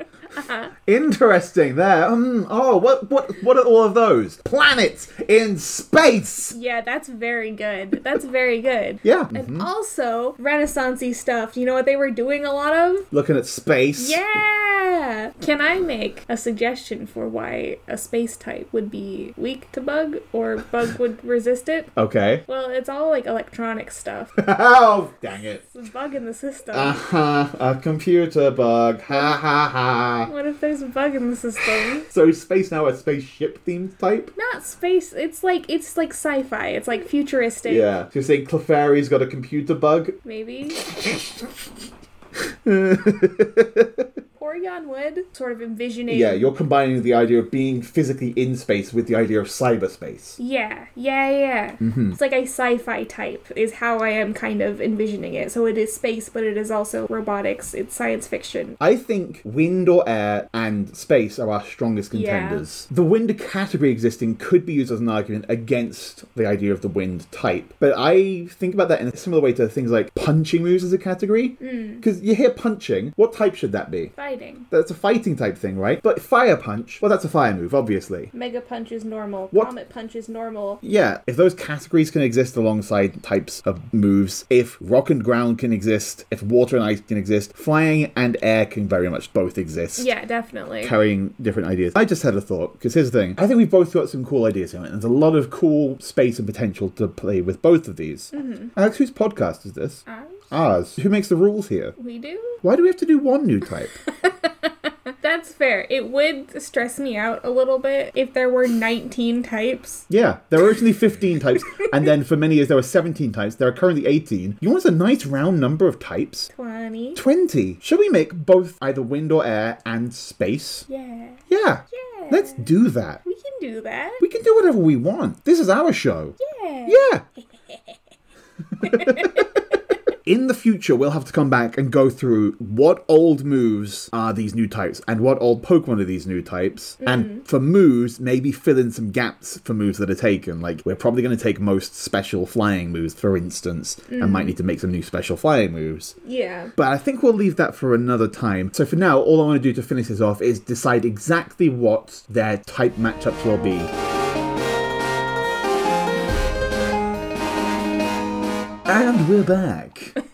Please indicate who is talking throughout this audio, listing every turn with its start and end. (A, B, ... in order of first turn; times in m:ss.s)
0:00.3-0:00.7 A
0:00.9-0:06.6 B
0:06.5-0:13.1 A
0:09.0-0:09.7 B
0:13.1-0:14.2 B
0:14.0-0:21.9 A
0:22.0-0:22.4 B
0:22.5-0:24.4 A
0:24.4-0:25.6 B
0:25.6-0:27.0 A
0:26.7-0:30.3 B
0:30.3-0:32.1 A
0:32.0-0:34.3 B
0:34.4-0:37.9 A
0:37.6-0:40.2 B
0:40.2-0:40.8 A
0:40.8-0:41.6 B
0:42.4-0:44.1 B
0:44.4-0:46.5 A
0:46.1-0:50.4 B
0:50.4-0:58.8 A
0:51.8-0:52.2 B
0:58.8-1:14.1 B
1:02.1-1:02.6 A
1:11.6-1:12.0 A
1:14.2-1:14.7 A
1:14.7-1:18.3 B
1:18.3-1:20.8 A
1:20.8-1:30.1 B
1:30.0-1:31.0 A
1:30.8-1:42.0 B
1:38.3-1:38.7 A
1:40.1-1:40.4 A
1:42.0-1:42.6 A
1:42.6-1:44.0 B
1:44.2-1:50.1 A
1:50.1-1:56.5 B
1:51.6-1:51.9 A
1:56.5-1:57.2 A
1:57.2-2:00.9 B
2:00.9-2:02.7 A
2:01.5-2:03.2 B
2:03.2-2:04.2 A
2:04.2-2:07.2 B
2:06.4-2:08.0 A
2:08.8-2:09.5 B
2:08.8-2:09.6 A
2:10.2-2:26.2 B
2:17.0-2:17.4 A
2:24.1-2:24.6 A
2:26.2-2:26.7 A
2:26.8-2:33.9 B
2:38.9-2:40.2 B